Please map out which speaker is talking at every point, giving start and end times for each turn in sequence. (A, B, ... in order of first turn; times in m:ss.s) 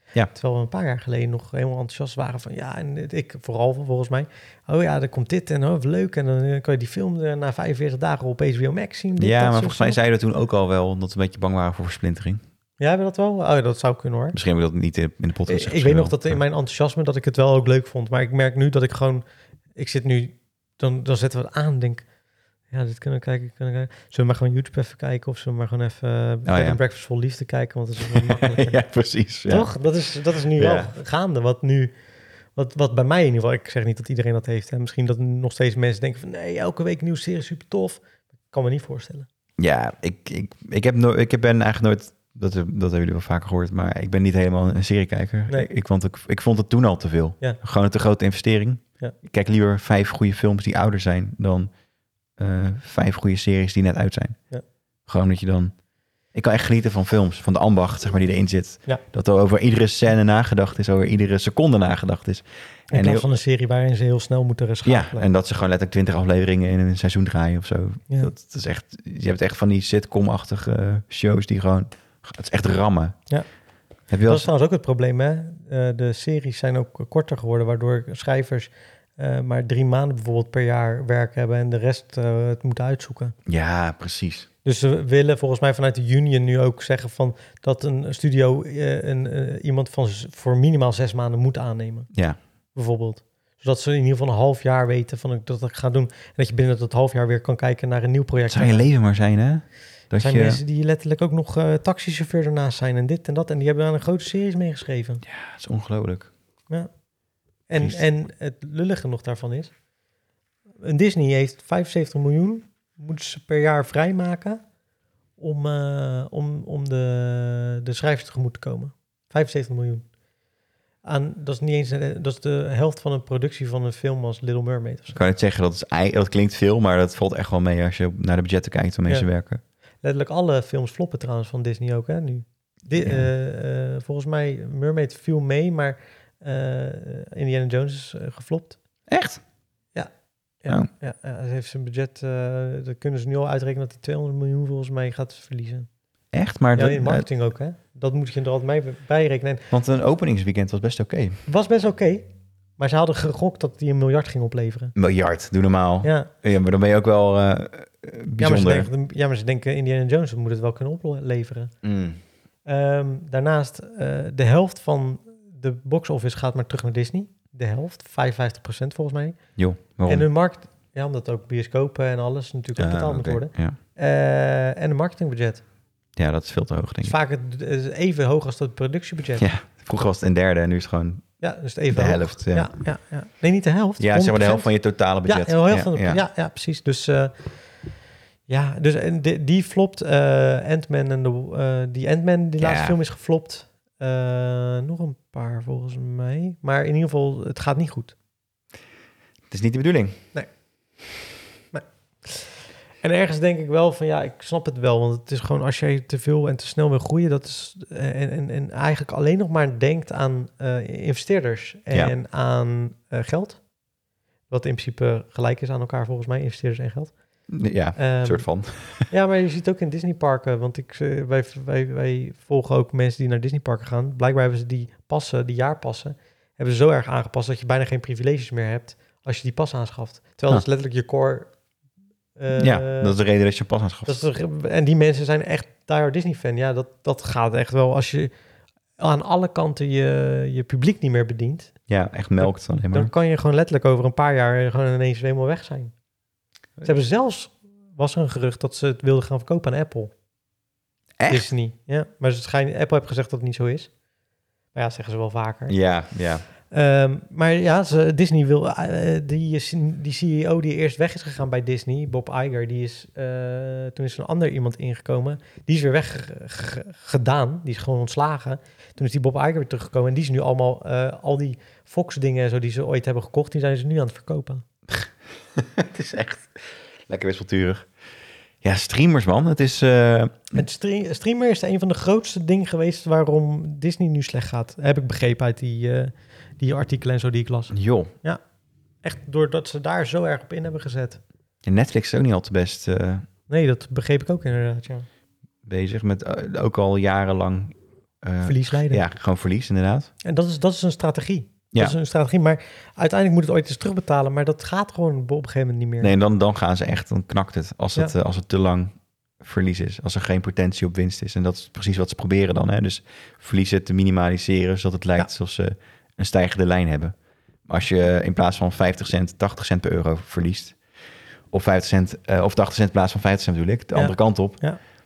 0:00.4-0:10.0 A
0:09.2-0:12.4 B
0:12.8-0:14.4 A
0:14.3-0:16.4 B
0:15.5-0:19.2 A
0:19.8-0:22.0 A
0:22.7-0:28.8 A
0:26.4-0:26.8 B
0:28.1-0:29.7 B
0:29.5-0:31.9 A
0:30.6-0:30.9 B
0:32.6-0:39.3 A
0:39.6-0:51.7 B
0:52.4-0:54.4 B
0:55.1-0:55.8 B
0:56.3-1:03.3 B
1:02.9-1:05.3 A
1:04.8-1:13.2 B
1:14.1-1:14.5 B
1:14.3-1:23.4 A
1:23.5-1:24.5 B
1:24.6-1:32.1 A
1:32.8-1:38.9 A
1:38.5-1:40.6 B
1:40.2-1:45.2 A
1:45.2-1:46.3 B
1:47.7-1:49.7 A
1:50.8-1:54.6 A
1:55.4-2:00.1 A
2:01.0-2:05.2 A
2:05.1-2:09.6 B
2:10.0-2:18.8 A
2:13.0-2:13.3 B
2:19.1-2:19.4 B
2:20.6-2:25.9 A
2:26.3-2:27.3 B
2:26.8-2:29.6 A
2:29.7-2:31.4 B
2:31.5-2:32.3 A
2:32.8-2:34.9 A
2:35.0-2:38.9 B
2:36.0-2:36.3 A
2:38.4-2:41.7 A
2:41.8-2:42.2 B
2:42.7-2:49.4 A
2:49.6-2:50.3 B
2:50.0-2:55.6 A
2:52.8-2:53.8 B
2:56.2-2:57.2 B
2:57.0-2:59.5 A
2:59.4-3:01.2 B
3:01.4-3:04.7 A
3:01.9-3:02.7 B
3:04.0-3:06.2 B
3:05.2-3:07.4 A
3:08.5-3:18.2 A
3:12.6-3:13.0 B
3:19.5-3:20.2 B
3:21.7-3:33.6 A
3:34.5-3:37.1 A
3:37.5-3:39.1 B
3:38.0-3:38.5 A
3:39.0-3:51.5 A
3:52.4-3:53.1 A
3:52.5-3:54.2 B
3:54.1-3:58.3 A
3:59.0-4:01.7 A
4:01.9-4:03.1 B
4:02.4-4:05.9 A
4:06.8-4:10.1 A
4:11.2-4:11.5 B
4:11.3-4:13.9 A
4:14.8-4:15.8 A
4:15.7-4:16.4 B
4:16.7-4:34.6 A
4:34.9-4:37.9 B
4:38.6-4:40.6 B
4:40.5-4:48.4 A
4:47.7-4:48.1 B
4:49.0-4:51.2 A
4:51.6-4:53.3 B
4:53.5-4:55.1 A
4:55.6-5:00.1 B
4:58.4-4:59.0 A
5:00.2-5:06.2 A
5:06.0-5:20.8 B
5:21.5-5:24.6 B
5:23.9-5:24.8 A